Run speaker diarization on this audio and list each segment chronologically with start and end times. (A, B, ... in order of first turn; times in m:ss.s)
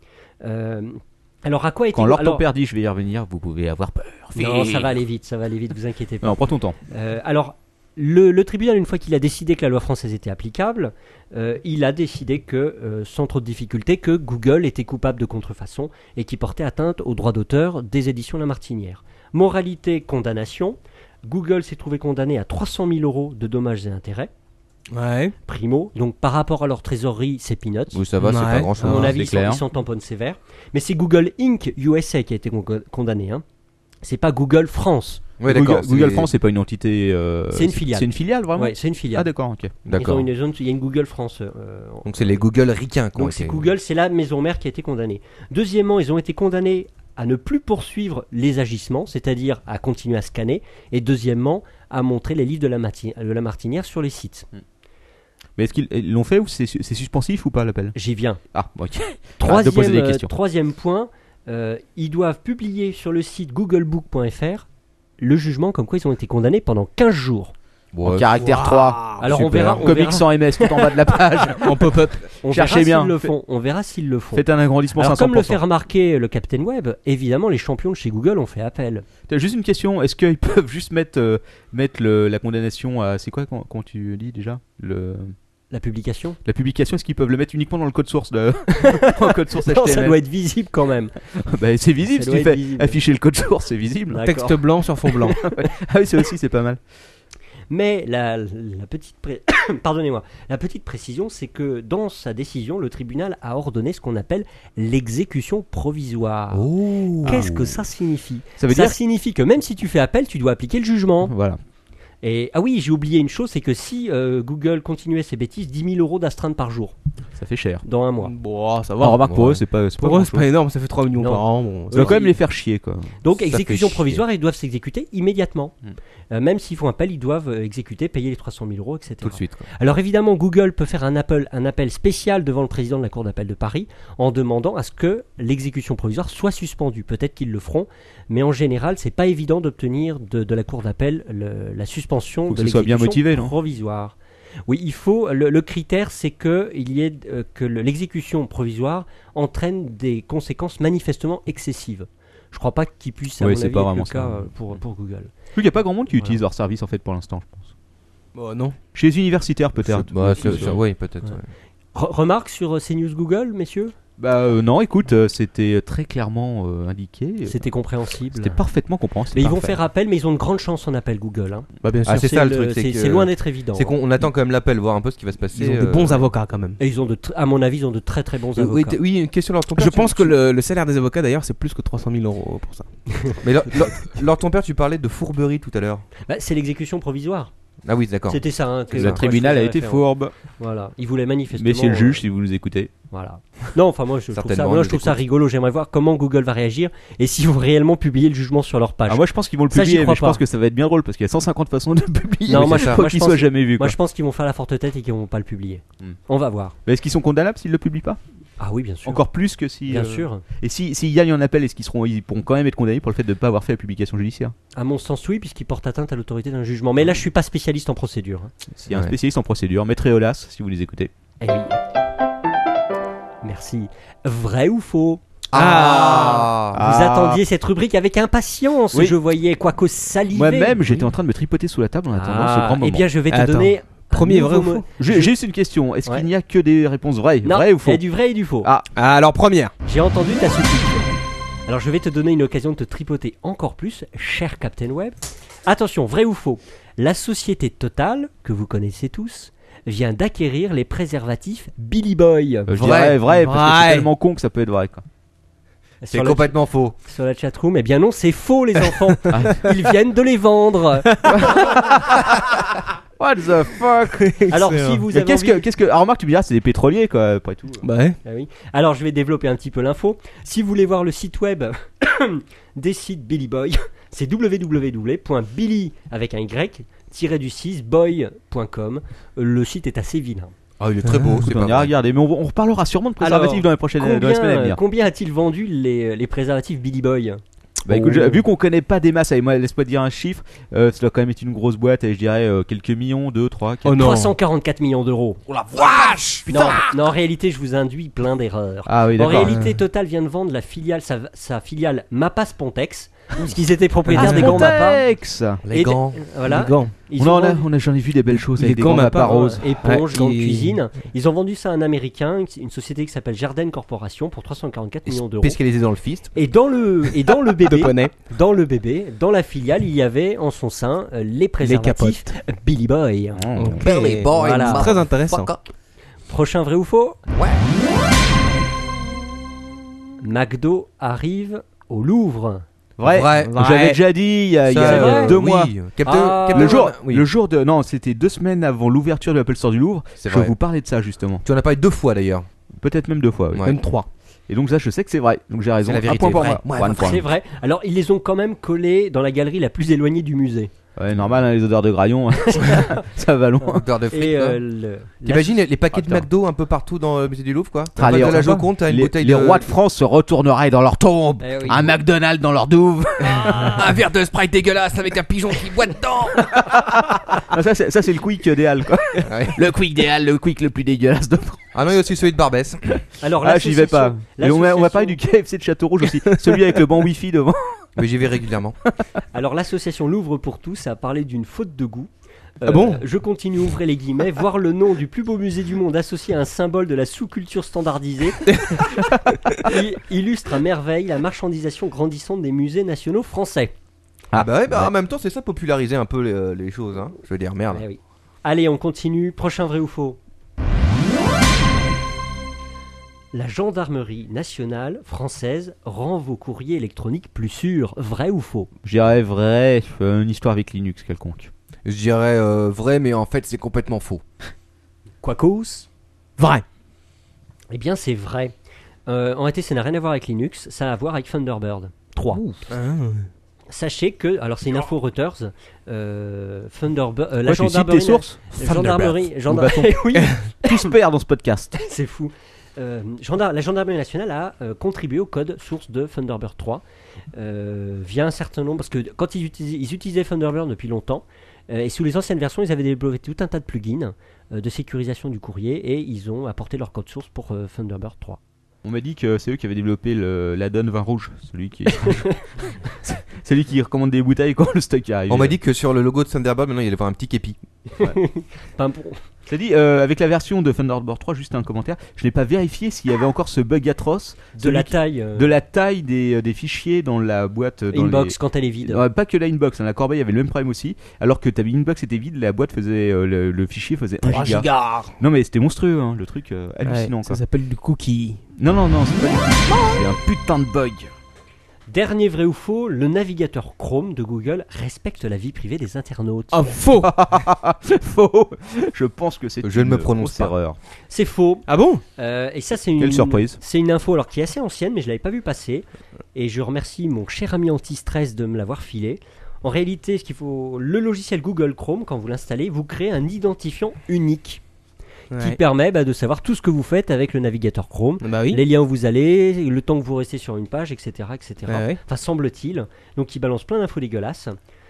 0:00.4-0:02.4 A
0:01.9-0:05.0 B
0:04.4-0:24.3 A
0:06.2-0:06.8 B
0:24.9-0:25.4 C
0:25.5-0:28.0 A
0:27.9-0:29.1 D
0:28.2-0:29.1 C
0:28.8-0:33.4 A
0:28.8-0:29.6 B
0:34.0-0:35.2 A
0:35.4-0:36.3 D
0:35.5-0:39.7 B
0:37.5-0:39.3 A
0:39.9-0:40.3 D
0:39.9-0:42.4 A
0:42.0-0:43.7 D
0:43.2-0:54.5 A
0:55.6-0:58.0 B
0:58.0-0:58.4 A
0:58.5-1:00.3 B
0:59.4-1:04.7 A
1:05.2-1:07.5 A
1:07.9-1:08.3 D
1:08.0-1:13.3 B
1:08.4-1:09.2 C
1:09.2-1:10.9 A
1:11.6-1:12.3 C
1:12.4-1:19.1 A
1:14.3-1:15.6 B
1:19.3-1:25.3 B
1:25.7-1:26.4 A
1:26.4-1:30.2 B
1:28.8-1:29.1 A
1:29.6-1:31.2 A
1:31.4-1:34.3 B
1:32.1-1:33.0 A
1:34.1-1:34.6 A
1:34.2-1:35.4 C
1:35.4-1:36.8 B
1:37.7-1:46.7 A
1:46.5-1:47.5 D
1:47.2-1:47.8 B
1:47.2-1:51.3 A
1:48.6-1:49.0 B
1:51.2-1:51.6 B
1:52.2-1:57.0 A
1:57.4-1:57.8 B
1:57.8-1:58.3 A
1:58.2-1:59.3 C
1:59.0-2:00.5 B
1:59.2-1:59.6 D
2:00.0-2:02.2 C
2:01.2-2:02.4 A
2:01.9-2:04.0 B
2:03.2-2:05.8 A
2:03.5-2:03.9 D
2:06.3-2:24.2 A
2:09.2-2:09.7 D
2:22.5-2:23.5 B
2:24.7-2:35.3 A
2:33.4-2:34.5 B
2:35.5-2:37.7 B
2:36.1-2:36.4 A
2:38.4-2:38.8 C
2:39.0-2:40.8 B
2:39.8-2:41.5 D
2:42.0-2:43.9 A
2:44.2-2:47.7 B
2:47.5-2:48.6 A
2:48.3-2:49.8 B
2:49.3-2:53.9 A
2:51.8-2:52.3 C
2:52.1-2:56.3 D
2:55.6-2:56.8 C
2:56.8-2:59.0 A
2:58.6-3:00.4 D
2:59.8-3:02.9 C
3:03.4-3:06.0 D
3:06.3-3:07.5 A
3:07.8-3:08.4 D
3:08.3-3:12.2 A
3:08.9-3:10.3 B
3:11.5-3:12.9 B
3:13.1-3:20.4 A
3:14.3-3:15.2 D
3:19.1-3:24.0 B
3:22.5-3:23.0 D
3:22.5-3:26.8 A
3:26.9-3:28.2 B
3:28.6-3:29.2 A
3:29.0-3:34.6 B
3:29.9-3:30.4 A
3:34.7-3:38.5 A
3:38.7-3:41.1 B
3:41.4-3:41.8 A
3:43.4-3:45.2 A
3:45.5-3:46.8 D
3:45.5-3:46.5 C
3:46.7-3:47.4 B
3:46.8-3:50.8 A
3:50.3-3:53.1 B
3:52.1-3:55.3 A
3:53.3-3:54.8 C
3:55.0-3:58.0 B
3:57.4-3:58.7 A
3:58.6-3:58.9 B
3:59.0-3:59.7 C
3:59.9-4:01.1 A
4:01.7-4:12.8 A
4:12.7-4:15.0 B
4:12.8-4:13.2 D
4:13.1-4:14.1 C
4:16.0-4:21.7 A
4:16.1-4:17.0 D
4:19.3-4:19.6 B
4:21.3-4:22.4 B
4:23.2-4:24.3 B
4:24.2-4:25.0 C
4:24.5-4:25.6 A
4:25.1-4:27.9 B
4:27.8-4:28.2 C
4:28.2-4:40.5 A
4:40.8-4:41.9 D
4:41.1-4:41.4 C
4:41.4-4:44.8 B
4:43.2-4:47.4 A
4:47.8-4:54.1 B
4:47.9-4:48.4 C
4:53.8-4:54.4 C
4:54.0-4:55.4 A
4:55.5-4:56.9 E
4:56.5-5:05.0 A
4:58.9-4:59.6 B
4:59.4-4:59.8 C
5:04.1-5:04.7 C
5:04.1-5:05.6 B
5:05.6-5:06.2 D
5:05.7-5:07.6 A
5:06.5-5:06.9 C
5:07.2-5:09.6 B
5:08.6-5:10.8 C
5:09.1-5:15.6 A
5:15.1-5:16.3 D
5:16.3-5:23.4 A
5:17.7-5:18.1 C
5:21.6-5:22.3 C
5:23.4-5:23.8 B
5:23.6-5:25.5 C
5:23.8-5:25.6 E
5:23.9-5:25.5 D
5:24.3-5:24.9 A
5:26.3-5:27.2 A
5:30.2-5:32.6 A
5:33.0-5:35.7 B
5:33.1-5:33.5 D
5:33.4-5:34.0 C
5:34.7-5:37.3 D
5:34.8-5:35.4 A
5:36.0-5:36.9 A
5:36.5-5:41.4 B
5:40.2-5:40.5 D
5:41.4-5:42.5 D
5:42.7-5:43.7 B
5:43.6-5:44.1 C
5:44.5-5:47.3 B
5:45.8-5:47.1 D
5:46.4-5:50.7 A
5:51.0-5:53.9 B
5:52.5-5:53.0 A
5:53.8-5:54.6 D
5:54.1-5:55.6 A
5:55.2-5:59.7 D
5:55.9-5:56.3 B
5:58.0-6:03.9 B
6:01.4-6:01.9 A
6:03.4-6:06.5 E
6:06.5-6:11.6 B
6:09.3-6:09.6 D
6:11.7-6:13.0 D
6:13.2-6:15.2 A
6:13.4-6:17.9 B
6:18.0-6:18.8 D
6:19.3-6:22.1 A
6:22.6-6:28.5 A
6:22.7-6:23.0 C
6:28.5-6:28.9 C
6:29.6-6:33.7 A
6:34.3-6:34.9 B
6:34.3-6:37.8 D
6:37.7-6:40.2 A
6:43.3-6:48.7 A
6:48.8-6:51.5 B
6:51.8-6:54.2 D
6:55.2-6:55.9 A
6:56.4-6:56.6 C
6:57.7-6:58.5 A
6:59.1-7:02.5 A
7:02.7-7:03.3 C
7:03.7-7:10.9 A
7:07.5-7:11.7 B
7:11.8-7:16.8 A
7:17.4-7:28.4 A
7:28.8-7:35.6 B
7:35.3-7:37.6 D
7:38.0-7:39.2 A
7:39.5-7:57.4 B
7:44.6-7:45.5 A
7:47.9-7:49.1 A
7:54.6-7:55.0 E
7:56.8-7:58.4 C
7:58.6-8:01.1 B
8:01.9-8:06.6 A
8:06.5-8:07.3 C
8:07.0-8:10.8 B
8:09.6-8:10.5 D
8:11.1-8:11.7 A
8:11.7-8:12.0 C
8:12.2-8:24.6 A
8:13.0-8:13.6 B
8:25.3-8:25.6 C
8:25.4-8:34.6 A
8:28.2-8:28.6 C
8:31.7-8:32.0 C